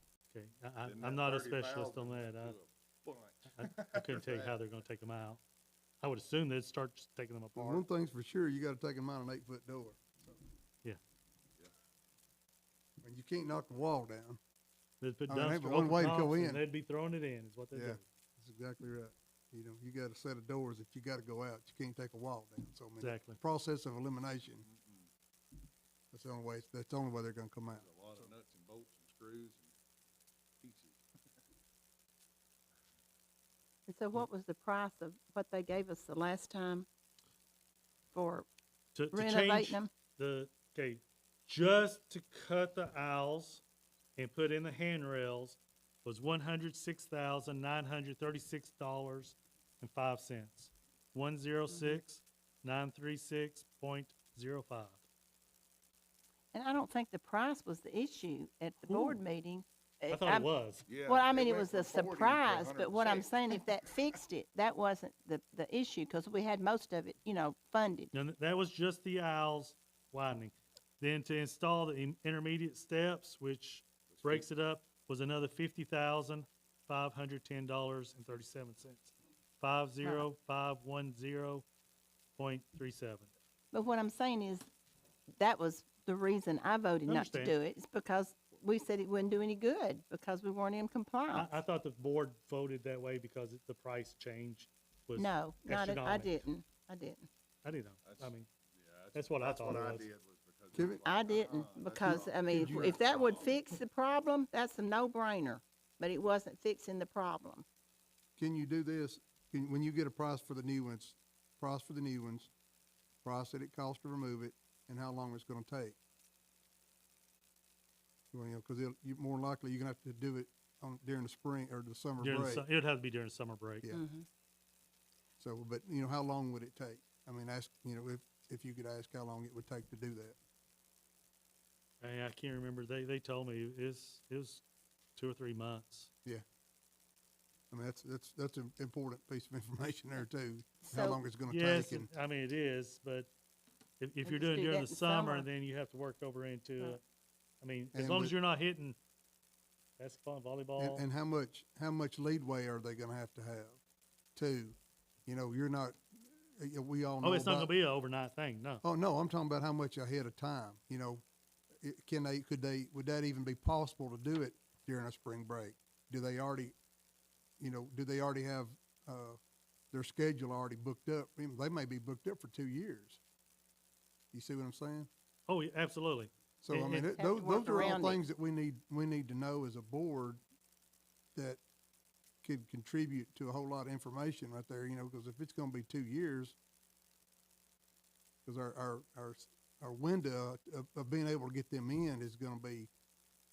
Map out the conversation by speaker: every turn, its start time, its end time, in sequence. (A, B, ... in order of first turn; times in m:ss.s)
0:00.3-0:02.6 A
0:00.8-0:04.5 B
0:03.5-0:05.4 A
0:06.0-0:07.8 A
0:07.6-0:10.4 C
0:13.0-0:14.4 C
0:15.0-0:18.0 A
0:15.3-0:16.6 C
0:17.7-0:24.6 C
0:23.0-0:23.4 A
0:24.6-0:25.1 B
0:26.1-0:27.9 C
0:27.7-0:29.7 B
0:30.6-0:31.1 B
0:33.9-0:36.9 D
0:38.1-0:38.5 D
0:39.0-0:43.6 A
0:39.1-0:39.9 D
0:44.2-0:55.0 A
0:51.7-0:52.0 D
0:56.5-1:00.5 D
0:58.9-0:59.2 A
1:00.1-1:00.9 A
1:00.9-1:03.3 B
1:01.0-1:08.1 D
1:08.1-1:21.6 A
1:14.2-1:14.4 B
1:22.4-1:23.3 A
1:23.7-1:24.7 D
1:25.4-1:31.6 D
1:27.1-1:27.6 A
1:31.3-1:36.5 A
1:35.2-1:37.3 D
1:37.6-1:38.5 A
1:38.0-1:43.5 B
1:39.1-1:40.1 A
1:40.7-1:41.1 C
1:41.0-1:47.6 D
1:42.2-1:43.0 C
1:48.4-1:52.5 C
1:53.2-1:56.0 C
1:58.3-2:02.6 C
2:02.2-2:03.9 A
2:03.9-2:04.3 D
2:05.4-2:10.4 C
2:12.0-2:14.6 A
2:15.2-2:16.1 A
2:17.7-2:22.1 C
2:20.8-2:21.2 D
2:21.5-2:23.3 A
2:24.0-2:27.0 A
2:24.2-2:25.5 D
2:27.6-2:29.0 A
2:27.9-2:28.3 C
2:30.0-2:31.0 A
2:30.8-2:33.8 C
2:34.4-2:37.7 C
2:37.2-2:38.8 A
2:38.8-2:41.2 C
2:41.8-2:46.8 C
2:47.6-2:49.4 C
2:49.9-2:53.2 C
2:54.3-2:55.1 C
2:55.5-2:57.1 A
2:56.6-3:00.4 C
2:57.2-2:58.2 D
3:01.4-3:01.6 C
3:02.4-3:06.6 C
3:08.4-3:12.9 C